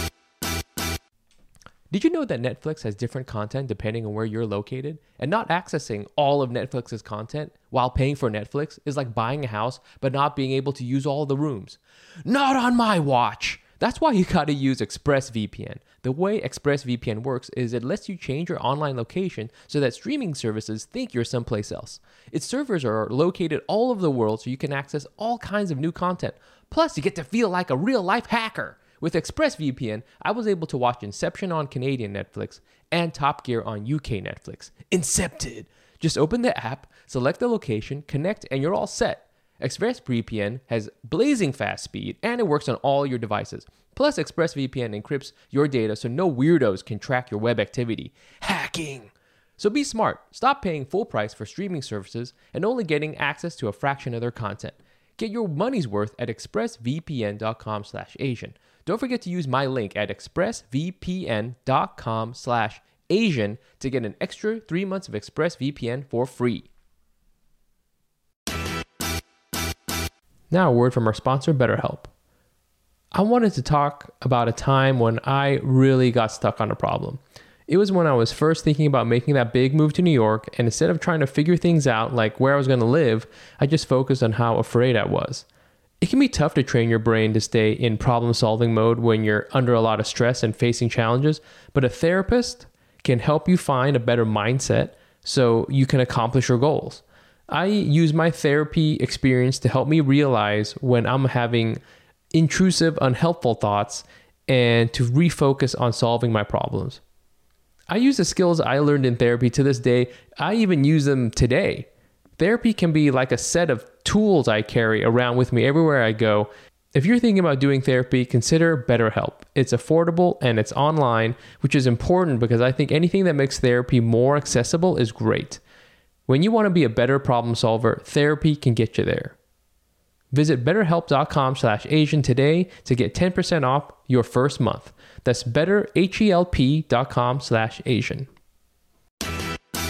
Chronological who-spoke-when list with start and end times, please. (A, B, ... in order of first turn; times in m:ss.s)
0:01.9-1:06.7 A
1:10.5-1:12.1 A
1:13.1-1:25.4 A
1:26.0-1:41.8 A
1:42.3-1:47.0 A
1:47.9-2:05.6 A
2:06.3-2:09.3 A
2:10.3-2:18.3 A